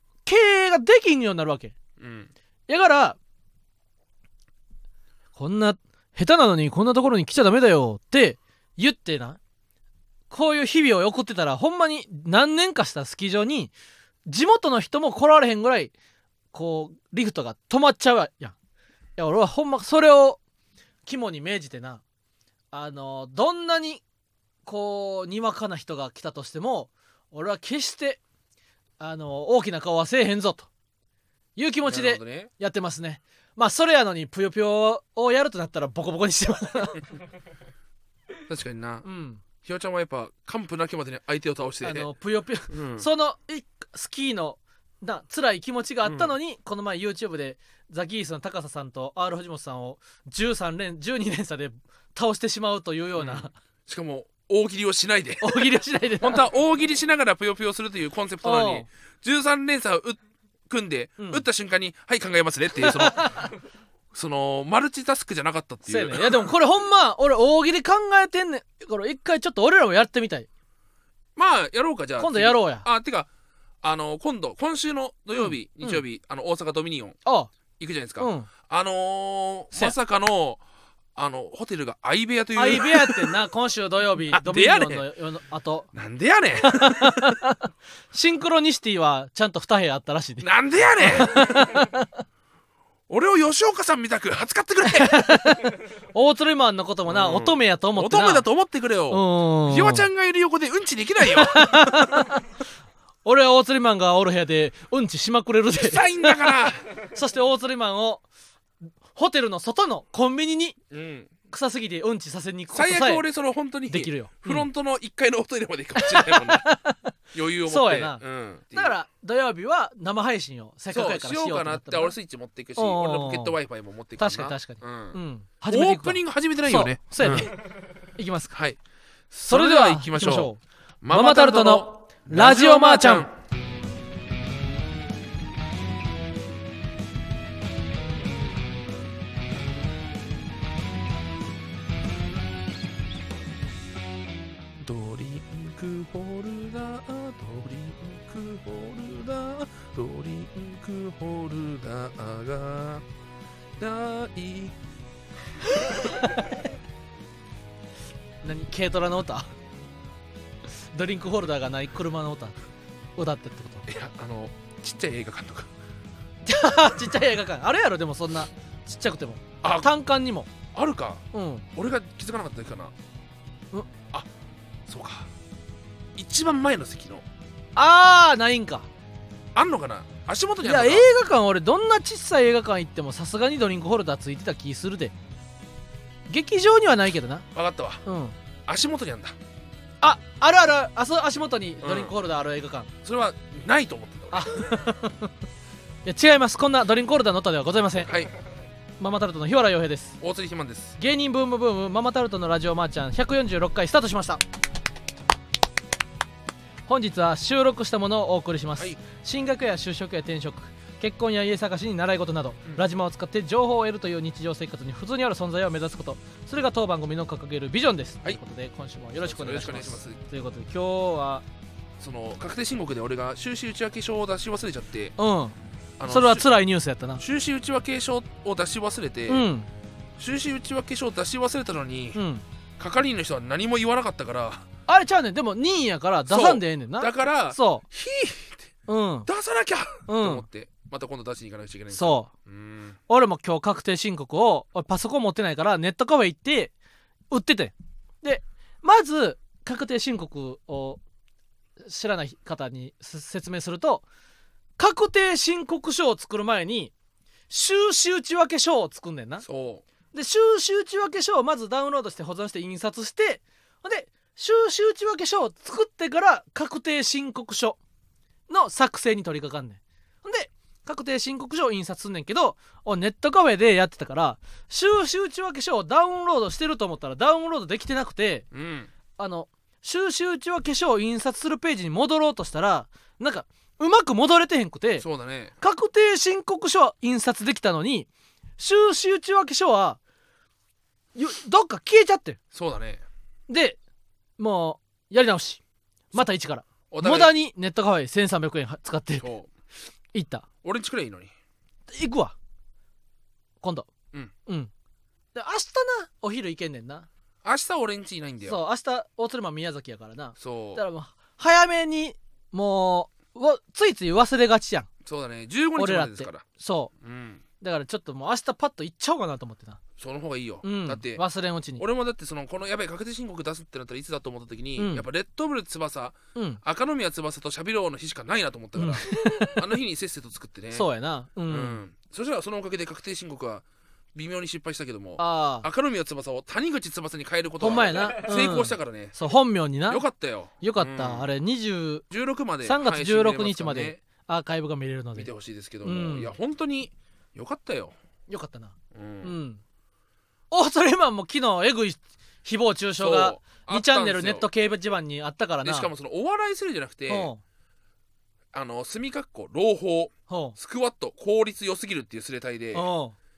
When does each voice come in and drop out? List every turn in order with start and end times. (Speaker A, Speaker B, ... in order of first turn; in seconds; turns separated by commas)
Speaker A: 0.3-1.8, Speaker B: 2.0-2.3, Speaker A: 2.7-3.2, Speaker A: 5.3-9.4, Speaker A: 10.3-13.7, Speaker A: 14.3-15.9, Speaker A: 16.5-18.6, Speaker A: 19.2-20.4, Speaker A: 21.1-22.0, Speaker A: 22.7-24.0, Speaker A: 24.7-28.2, Speaker A: 29.0-30.7, Speaker A: 31.6-37.0, Speaker B: 31.9-32.5, Speaker B: 38.5-39.1, Speaker A: 39.0-39.4, Speaker B: 39.6-42.1, Speaker A: 41.8-53.5, Speaker B: 42.7-43.1, Speaker B: 46.0-46.3, Speaker B: 53.2-63.5, Speaker A: 55.4-56.4, Speaker A: 58.4-58.9, Speaker A: 61.2-61.4, Speaker A: 62.8-63.5, Speaker B: 64.1-66.5, Speaker A: 65.9-70.5, Speaker B: 71.4-73.3, Speaker A: 72.2-72.9, Speaker B: 73.8-77.2, Speaker A: 75.4-76.0, Speaker A: 77.2-77.5, Speaker B: 77.8-80.6, Speaker A: 78.2-78.5, Speaker B: 81.2-83.3, Speaker A: 82.5-85.9, Speaker B: 84.3-85.1, Speaker B: 85.9-87.4, Speaker A: 86.6-92.1, Speaker B: 90.4-91.9, Speaker B: 93.1-95.2, Speaker A: 94.8-98.5, Speaker B: 97.1-102.3, Speaker A: 99.1-100.1, Speaker A: 101.2-102.5, Speaker A: 103.2-108.2, Speaker B: 105.8-106.8, Speaker A: 109.1-110.8, Speaker B: 110.9-111.3, Speaker A: 111.5-113.2, Speaker B: 112.7-116.7, Speaker A: 113.9-114.7, Speaker A: 116.0-117.1, Speaker B: 117.3-118.9, Speaker A: 117.7-122.2, Speaker B: 120.9-127.5, Speaker A: 122.8-123.6, Speaker A: 124.2-127.5, Speaker A: 128.2-128.6, Speaker B: 128.5-128.8, Speaker B: 129.3-130.5, Speaker A: 129.5-133.3, Speaker B: 131.0-133.3, Speaker B: 144.8-153.1, Speaker B: 153.8-154.8, Speaker A: 155.8-156.7, Speaker A: 158.4-159.5, Speaker A: 160.9-162.6, Speaker A: 163.2-163.9, Speaker B: 163.9-165.7, Speaker A: 166.4-170.5, Speaker B: 169.6-169.9, Speaker B: 170.7-171.2, Speaker A: 171.3-171.7, Speaker B: 171.8-172.9, Speaker B: 174.9-175.3, Speaker B: 176.2-177.2, Speaker A: 177.8-178.9, Speaker B: 179.6-181.1, Speaker A: 180.6-185.1, Speaker A: 186.3-187.5, Speaker B: 187.5-188.0, Speaker A: 188.1-188.3, Speaker B: 188.7-189.4, Speaker A: 190.0-192.9, Speaker B: 191.8-192.1, Speaker B: 193.0-194.7, Speaker A: 194.3-195.3, Speaker A: 196.1-198.1, Speaker B: 198.0-198.3, Speaker A: 199.0-200.2, Speaker B: 200.2-201.0, Speaker A: 201.0-204.4, Speaker A: 206.9-221.4, Speaker B: 219.2-220.2, Speaker B: 222.0-225.2, Speaker A: 225.2-225.6, Speaker B: 226.0-226.4, Speaker A: 226.1-227.2, Speaker B: 227.2-229.5, Speaker A: 229.3-229.7, Speaker B: 230.2-232.2, Speaker A: 232.2-232.4, Speaker B: 232.8-234.7, Speaker A: 234.9-237.8, Speaker B: 236.3-238.7, Speaker A: 238.9-239.3, Speaker B: 239.3-243.0, Speaker A: 240.1-240.4, Speaker A: 241.9-242.3, Speaker A: 243.1-246.7, Speaker A: 247.3-251.0, Speaker A: 251.8-254.0, Speaker A: 254.8-256.9, Speaker A: 257.5-259.4, Speaker B: 259.4-259.8, Speaker A: 260.1-267.8, Speaker A: 268.5-278.5, Speaker B: 278.5-278.9, Speaker A: 279.2-285.1, Speaker B: 285.0-285.5, Speaker A: 285.6-290.0, Speaker A: 291.1-292.4, Speaker B: 292.5-293.0, Speaker A: 293.5-293.8, Speaker A: 294.4-299.3, Speaker B: 296.9-297.3, Speaker B: 299.2-299.5, Speaker A: 300.1-300.5, Speaker B: 300.6-301.3, Speaker A: 301.9-302.4, Speaker A: 303.6-303.9, Speaker A: 304.5-304.7, Speaker A: 305.4-307.1, Speaker B: 307.4-308.6, Speaker A: 308.4-314.9, Speaker B: 310.4-310.8, Speaker B: 315.1-316.4, Speaker A: 315.8-316.9, Speaker B: 317.0-317.4, Speaker A: 317.6-319.8, Speaker B: 320.0-321.2, Speaker A: 320.6-321.8, Speaker B: 321.8-330.9, Speaker A: 324.8-325.0, Speaker A: 326.4-326.6, Speaker A: 328.8-329.6, Speaker A: 330.7-331.8, Speaker B: 331.5-339.2, Speaker A: 335.2-335.7, Speaker A: 337.6-340.1, Speaker B: 339.9-341.3, Speaker A: 340.6-342.1, Speaker B: 342.1-344.0, Speaker A: 342.6-345.3, Speaker B: 345.2-347.9, Speaker A: 345.8-346.3, Speaker A: 348.3-349.6, Speaker B: 348.9-349.4, Speaker A: 350.5-355.9, Speaker B: 353.0-354.5, Speaker B: 355.6-357.3, Speaker A: 357.1-357.4, Speaker B: 358.5-362.9, Speaker A: 360.3-360.6, Speaker A: 362.7-363.2